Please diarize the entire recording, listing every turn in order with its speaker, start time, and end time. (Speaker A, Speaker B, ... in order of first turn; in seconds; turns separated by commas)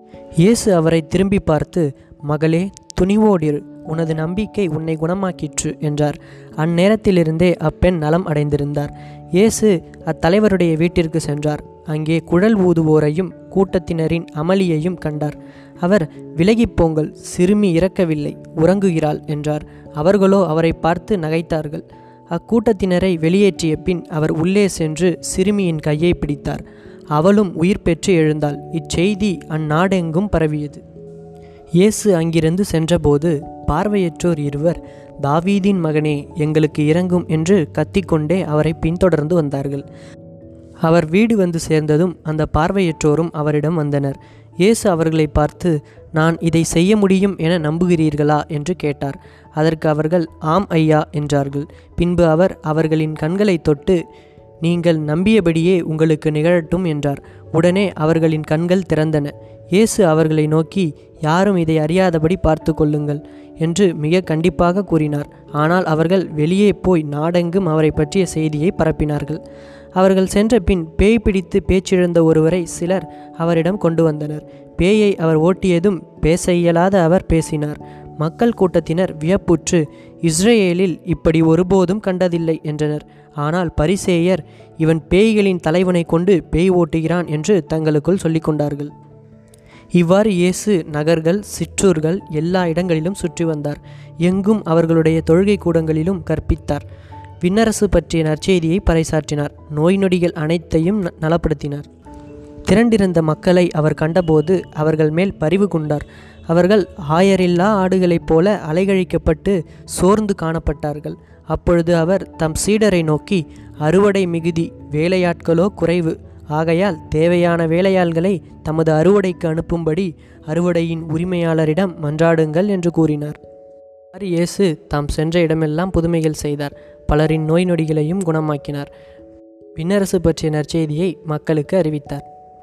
Speaker A: 0.4-26.6, Speaker A: 27.1-30.8, Speaker A: 31.8-39.8, Speaker A: 40.8-54.0, Speaker A: 54.6-69.4, Speaker A: 70.0-88.9, Speaker A: 90.0-96.8, Speaker A: 97.4-101.9, Speaker A: 102.7-123.4, Speaker A: 124.1-128.9, Speaker A: 129.8-132.2